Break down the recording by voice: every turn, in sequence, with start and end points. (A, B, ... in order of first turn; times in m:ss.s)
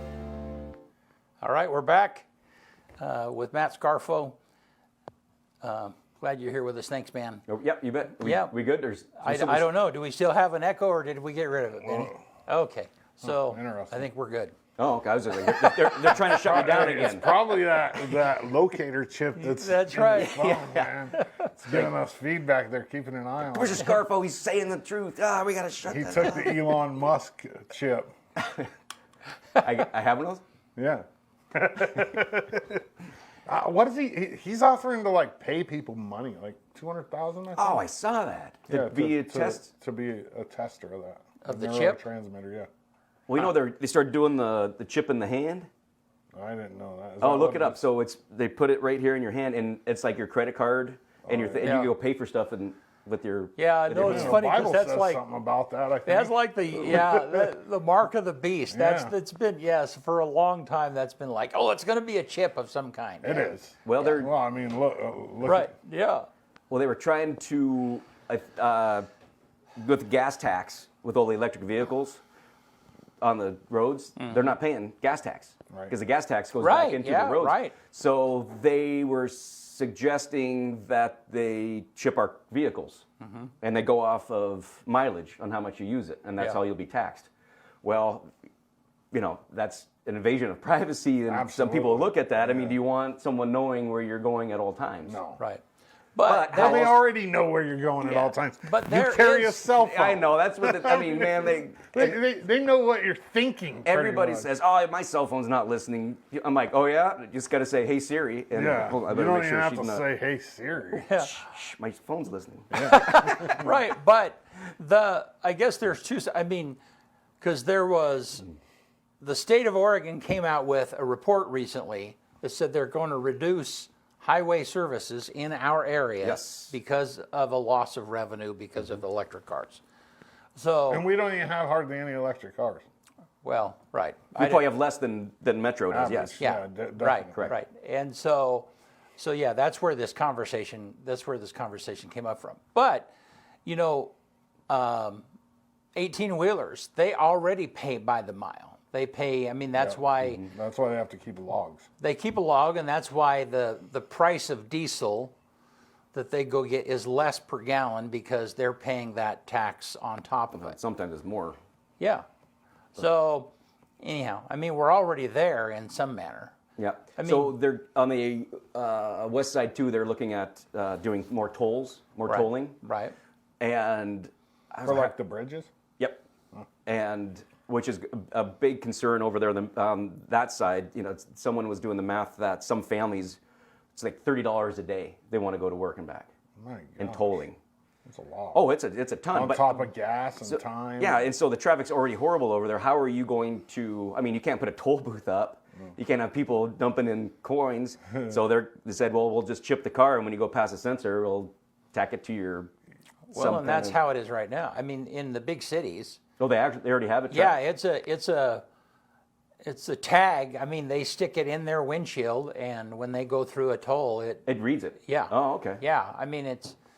0:01.4-0:02.3 A
0:03.0-0:04.4 A
0:05.6-0:07.4 A
0:07.5-0:09.7 B
0:08.2-0:08.5 A
0:09.2-0:14.6 A
0:11.8-0:12.2 C
0:13.2-0:14.1 C
0:14.8-0:17.4 B
0:16.3-0:24.0 C
0:19.4-0:20.5 A
0:20.1-0:21.0 B
0:21.1-0:21.5 A
0:23.5-0:26.6 B
0:25.8-0:28.1 C
0:29.6-0:30.4 B
0:30.8-0:32.8 C
0:33.5-0:37.8 C
0:37.6-0:39.7 B
0:38.7-0:42.7 C
0:41.4-0:42.0 A
0:43.3-0:45.7 B
0:46.3-0:47.8 C
0:47.2-0:54.4 B
0:51.2-0:51.7 C
0:51.6-0:51.9 A
0:53.6-0:55.2 A
0:54.0-0:57.5 C
0:56.1-1:04.2 A
0:58.7-0:59.1 C
1:03.2-1:05.7 C
1:03.8-1:04.3 B
1:05.4-1:06.3 A
1:06.7-1:09.1 B
1:09.8-1:12.2 B
1:13.2-1:23.0 B
1:14.2-1:14.5 A
1:16.6-1:17.8 A
1:23.2-1:23.5 A
1:23.6-1:27.3 B
1:27.8-1:28.3 B
1:29.1-1:35.2 B
1:31.3-1:32.8 C
1:35.0-1:35.4 C
1:36.2-1:37.0 A
1:36.2-1:37.0 B
1:36.5-1:44.5 C
1:38.0-1:39.7 A
1:39.8-1:42.2 B
1:43.8-1:50.0 B
1:48.5-1:51.2 C
1:50.9-1:51.4 A
1:51.3-1:53.1 B
1:52.7-1:53.7 C
1:52.8-1:56.8 A
1:57.4-1:58.5 A
1:59.2-2:09.8 A
2:06.2-2:06.7 B
2:10.6-2:11.0 A
2:10.9-2:12.8 C
2:13.4-2:14.7 A
2:14.4-2:16.4 B
2:15.9-2:17.5 C
2:16.4-2:23.1 A
2:23.6-2:24.1 A
2:24.7-2:25.2 A
2:26.0-2:30.4 A
2:29.8-2:31.9 C
2:32.0-2:35.3 A
2:36.1-2:40.8 A
2:40.5-2:41.6 B
2:42.0-2:42.2 A
2:43.0-2:46.6 A
2:46.8-2:52.8 B
2:47.2-2:47.6 A
2:52.3-2:53.2 A
2:53.6-2:55.2 B
2:54.8-2:55.7 C
2:56.0-2:56.2 B
2:56.9-3:03.4 B
3:03.9-3:06.3 B
3:06.6-3:07.4 C
3:07.0-3:07.6 B
3:08.1-3:08.6 C
3:08.5-3:09.8 B
3:09.3-3:11.3 C
3:10.4-3:22.7 B
3:23.3-3:26.2 A
3:23.3-3:24.0 B
3:26.4-3:27.6 B
3:27.3-3:28.6 A
3:29.6-3:34.4 A
3:34.5-3:35.8 B
3:35.0-3:36.8 A